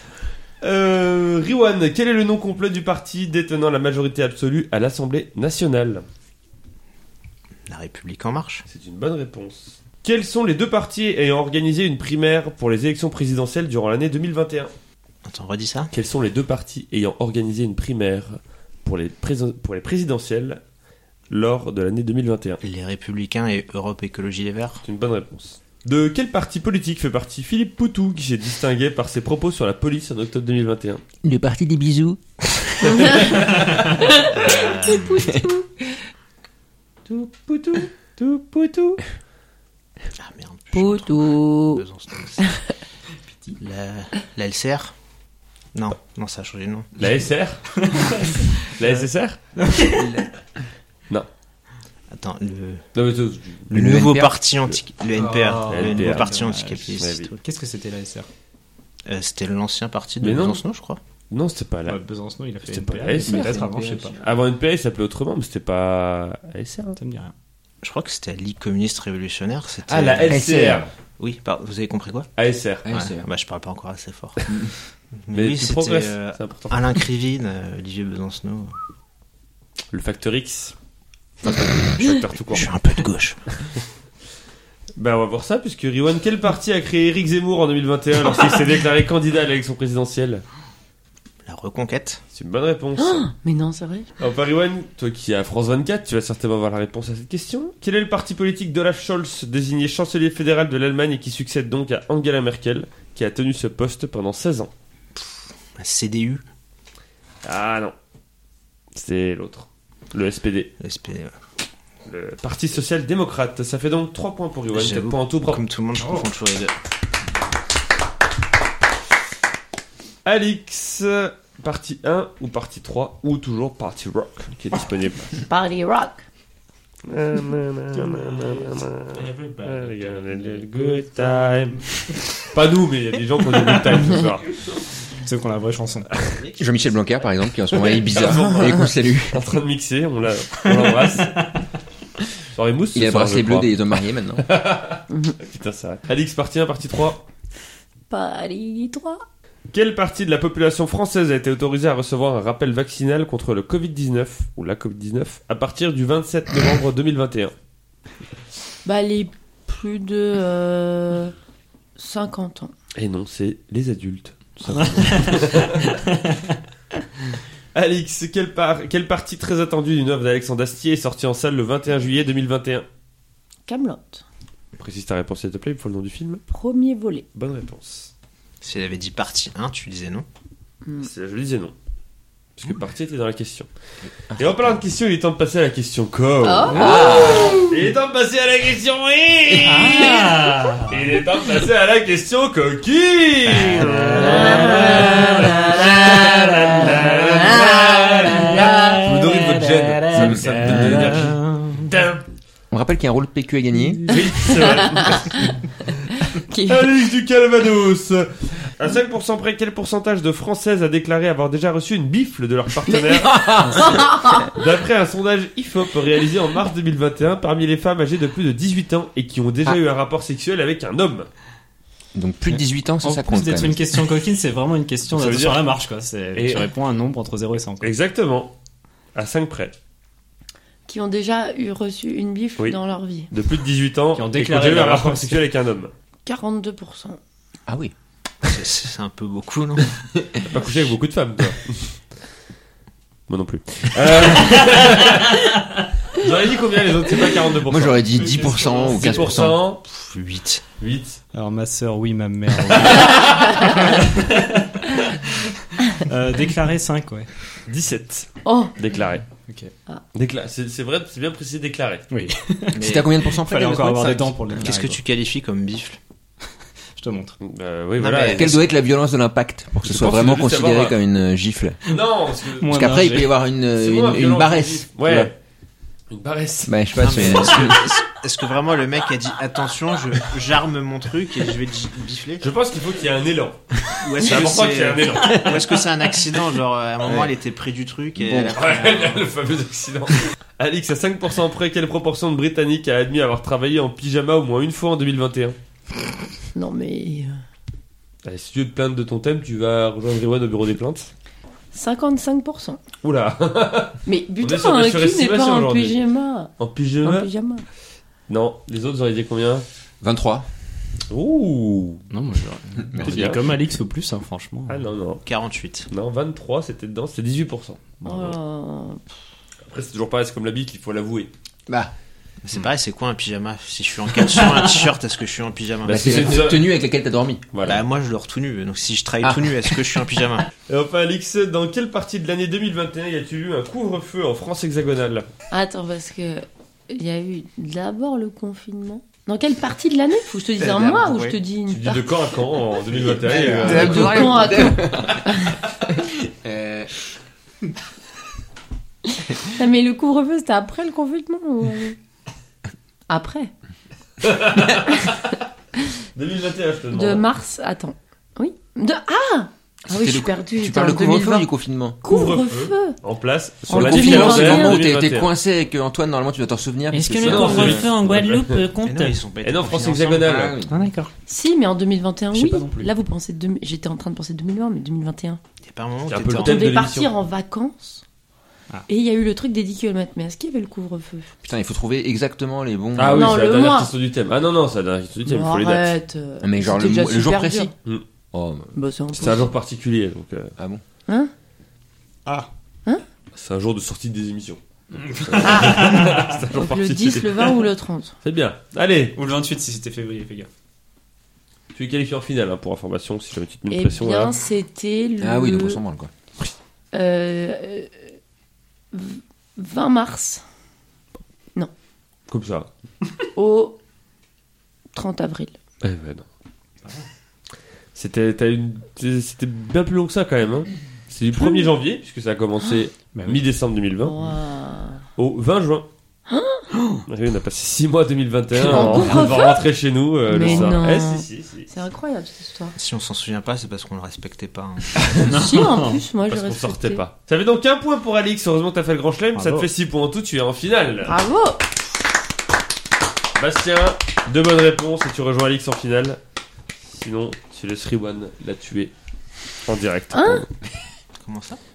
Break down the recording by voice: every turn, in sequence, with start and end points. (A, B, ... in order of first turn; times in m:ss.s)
0:00.6-0:06.0 A
0:07.7-0:08.6 B
0:08.7-0:14.7 A
0:15.2-0:15.9 B
0:15.9-0:20.6 A
0:21.3-0:22.6 A
0:22.6-0:24.8 B
0:24.8-0:31.0 A
0:31.2-0:33.0 C
0:33.0-0:33.3 D
0:33.9-0:36.0 D
0:34.3-0:35.4 B
0:37.1-0:39.0 A
0:40.2-0:42.6 B
0:40.7-0:41.8 D
0:42.4-0:42.7 D
0:43.6-0:44.9 B
0:45.7-0:46.9 B
0:47.0-0:47.6 A
0:47.8-0:49.0 E
0:48.7-0:49.4 A
0:49.6-0:50.2 E
0:49.9-0:50.2 C
0:52.1-0:52.8 B
0:52.9-0:53.7 A
0:53.7-0:54.4 C
0:53.7-0:57.4 B
0:55.1-0:58.3 E
0:55.7-0:56.3 A
0:57.0-0:57.3 A
0:59.0-1:01.0 B
1:00.2-1:00.6 A
1:01.3-1:02.0 A
1:01.9-1:04.2 E
1:02.7-1:03.6 A
1:03.2-1:04.2 C
1:04.2-1:07.0 A
1:07.0-1:07.3 E
1:07.8-1:10.4 B
1:09.9-1:10.9 A
1:10.3-1:10.9 C
1:11.2-1:12.3 B
1:12.4-1:12.9 A
1:12.8-1:13.2 C
1:12.9-1:14.5 B
1:15.3-1:18.7 B
1:15.3-1:16.9 A
1:19.9-1:20.7 A
1:21.5-1:22.7 A
1:21.6-1:21.9 B
1:22.5-1:23.4 B
1:25.0-1:30.4 A
1:31.4-1:32.2 B
1:32.3-1:33.3 A
1:33.0-1:34.1 D
1:34.2-1:44.7 A
1:45.8-1:46.4 B
1:47.4-1:47.9 A
1:48.9-1:50.7 A
1:50.8-1:51.3 B
1:52.0-1:55.6 A
1:54.7-1:56.7 B
2:00.2-2:05.4 A
2:05.4-2:06.2 D
2:07.1-2:14.6 A
2:09.1-2:12.0 E
2:15.2-2:16.1 E
2:16.2-2:16.9 B
2:16.6-2:19.4 C
2:17.8-2:21.5 A
2:22.5-2:23.8 A
2:22.9-2:24.5 C
2:24.4-2:27.2 A
2:28.1-2:29.2 D
2:29.7-2:37.5 A
2:38.8-2:41.3 D
2:42.0-2:42.7 D
2:43.0-2:46.0 A
2:44.7-2:46.6 E
2:47.7-2:52.8 A
2:53.6-2:54.2 D
2:54.8-2:56.4 A
2:56.5-2:57.2 D
2:57.3-2:58.1 A
2:58.6-3:00.2 B
3:01.0-3:01.7 A
3:02.6-3:03.7 A
3:04.0-3:04.8 C
3:04.4-3:10.2 A
3:06.4-3:07.7 D
3:06.7-3:07.6 C
3:09.5-3:09.8 C
3:09.7-3:11.0 E
3:09.8-3:10.3 D
3:10.9-3:22.2 A
3:13.7-3:21.9 E
3:14.2-3:15.6 D
3:20.1-3:21.3 C
3:22.7-3:24.2 C
3:24.1-3:25.5 A
3:24.1-3:25.5 D
3:26.1-3:26.9 D
3:26.7-3:41.3 A
3:33.1-3:34.3 C
3:33.8-3:34.5 D
3:42.1-3:44.0 C
3:43.0-3:47.9 E
3:45.1-3:45.6 A
3:46.3-3:46.7 A
3:47.8-3:48.5 A
3:49.1-3:49.7 A
3:50.9-3:53.3 D
3:53.3-3:55.9 A
3:54.1-3:55.4 E
3:56.2-3:57.2 D
3:57.7-3:57.9 C
3:58.4-4:00.0 B
4:00.4-4:02.0 A
4:03.3-4:05.5 A
4:06.1-4:09.8 A
4:07.7-4:09.6 C
4:08.2-4:09.1 E
4:09.0-4:10.6 B
4:10.8-4:11.2 A
4:11.3-4:17.3 E
4:17.6-4:19.2 A
4:18.4-4:18.7 D
4:19.5-4:19.7 E
4:20.1-4:22.0 A
4:22.1-4:25.0 E
4:22.7-4:23.1 B
4:22.8-4:24.7 C
4:24.6-4:26.0 B
4:27.0-4:27.4 E
4:27.4-4:28.6 A
4:28.0-4:28.6 B
4:28.3-4:31.8 C
4:29.8-4:31.0 A
4:31.8-4:32.7 A
4:32.5-4:33.3 E
4:32.7-4:35.3 C
4:33.7-4:35.3 A
4:36.1-4:37.8 A
4:36.7-4:38.0 C
4:37.0-4:42.5 B
4:42.4-4:45.6 A
4:44.0-4:49.3 B
4:48.2-4:48.6 C
4:48.5-4:55.6 A
4:56.5-4:57.4 D
4:58.2-5:01.1 A
5:01.7-5:02.8 D
5:03.0-5:06.0 A
5:04.0-5:07.6 D
5:06.6-5:07.3 A
5:08.3-5:09.6 A
5:10.0-5:10.5 C
5:11.1-5:12.0 A
5:12.1-5:14.8 E
5:12.9-5:13.2 C
5:13.0-5:13.4 A
5:14.7-5:15.2 A
5:15.2-5:15.9 B
5:15.9-5:18.4 A
5:18.0-5:19.0 D
5:19.7-5:21.3 A
5:22.4-5:26.5 B
5:25.8-5:26.7 A
5:25.9-5:27.4 C
5:27.5-5:27.8 A
5:27.6-5:30.5 B
5:29.2-5:29.8 C
5:30.7-5:35.3 A
5:35.5-5:42.1 D
5:40.6-5:41.4 B
5:41.7-5:44.4 A
5:43.2-5:46.9 C
5:43.2-5:44.2 B
5:43.6-5:45.5 D
5:49.2-5:52.0 D
5:53.1-5:53.5 D
5:54.2-5:55.3 A
5:56.1-5:57.2 A
5:56.9-6:01.5 D
5:59.9-6:02.0 C
6:02.0-6:03.0 D
6:02.0-6:05.3 A
6:03.7-6:04.8 D
6:03.7-6:07.9 C
6:06.9-6:09.2 E
6:07.2-6:08.7 A
6:08.8-6:10.5 B
6:09.4-6:10.6 A
6:10.2-6:10.9 C
6:10.7-6:11.1 E
6:11.2-6:15.4 D
6:12.3-6:12.9 E
6:15.6-6:16.7 B
6:16.1-6:17.1 A
6:16.4-6:18.0 D
6:18.9-6:21.3 D
6:21.4-6:23.4 C
6:23.0-6:25.9 A
6:23.1-6:23.9 D
6:25.2-6:27.7 D
6:26.4-6:27.7 C
6:28.3-6:28.7 C
6:28.7-6:29.5 D
6:29.1-6:30.5 A
6:30.6-6:30.8 C
6:33.3-6:34.6 A
6:35.0-6:36.2 E
6:35.1-6:37.7 A
6:35.4-6:38.1 D
6:38.2-6:39.2 A
6:39.1-6:40.5 E
6:41.7-6:44.4 A
6:43.7-6:45.8 D
6:45.2-6:46.1 C
6:46.9-6:47.9 D
6:48.9-6:50.4 D
6:52.3-6:52.7 A
6:53.4-6:53.8 D
6:54.9-6:55.5 D
6:55.8-6:56.2 A
6:57.9-7:04.2 A
7:01.3-7:01.7 D
7:03.1-7:03.4 E
7:04.0-7:05.0 D
7:05.2-7:05.9 A
7:06.3-7:06.7 D
7:07.1-7:11.7 A
7:08.6-7:09.7 D
7:08.6-7:09.3 E
7:10.3-7:12.7 D
7:10.4-7:10.7 E
7:12.7-7:15.4 B
7:15.0-7:16.0 E
7:15.3-7:17.0 D
7:16.3-7:21.1 A
7:19.3-7:19.7 E
7:21.0-7:21.7 D
7:23.4-7:26.2 A
7:26.9-7:28.9 A
7:29.6-7:30.5 A
7:30.1-7:30.5 D
7:31.2-7:31.6 B